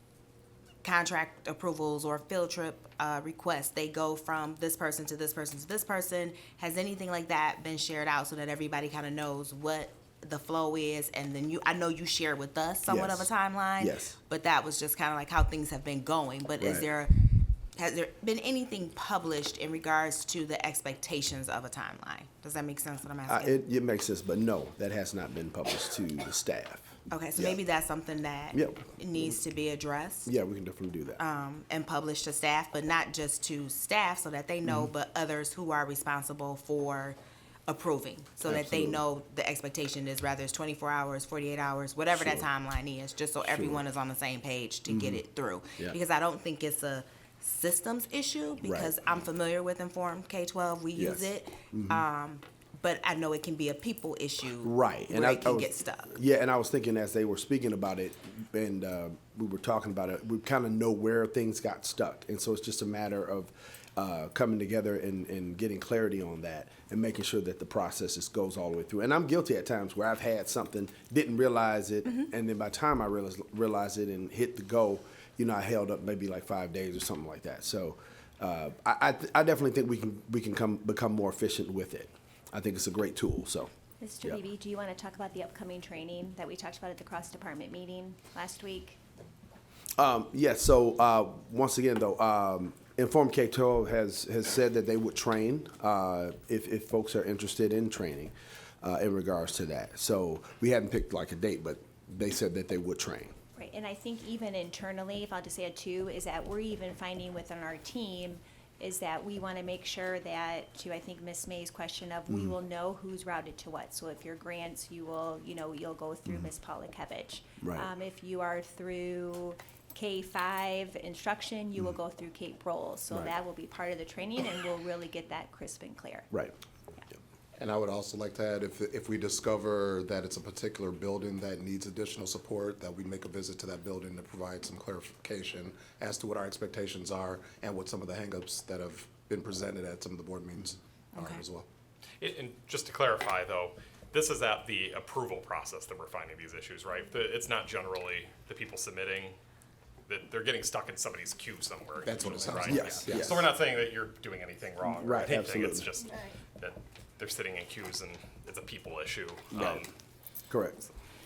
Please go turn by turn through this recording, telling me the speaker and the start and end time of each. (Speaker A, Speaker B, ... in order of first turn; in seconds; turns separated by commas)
Speaker A: 0.8-23.6, Speaker B: 12.9-13.3, Speaker B: 13.8-14.2, Speaker B: 16.6-16.9, Speaker B: 23.3-27.6, Speaker A: 27.1-30.3, Speaker B: 28.5-28.8, Speaker B: 30.2-31.2, Speaker A: 31.2-56.2, Speaker B: 38.5-39.0, Speaker B: 42.2-42.5, Speaker B: 43.5-43.8, Speaker B: 44.9-45.2, Speaker B: 48.6-48.9, Speaker B: 51.0-52.0, Speaker B: 54.6-83.7, Speaker C: 84.0-89.0, Speaker B: 90.0-103.3, Speaker C: 103.6-126.3, Speaker B: 117.6-117.9, Speaker D: 127.6-141.7, Speaker A: 141.1-141.4, Speaker E: 142.2-149.4, Speaker E: 150.1-159.9, Speaker D: 152.1-153.5, Speaker B: 152.7-153.5, Speaker B: 155.0-155.9, Speaker B: 159.5-159.8, Speaker B: 160.5-160.8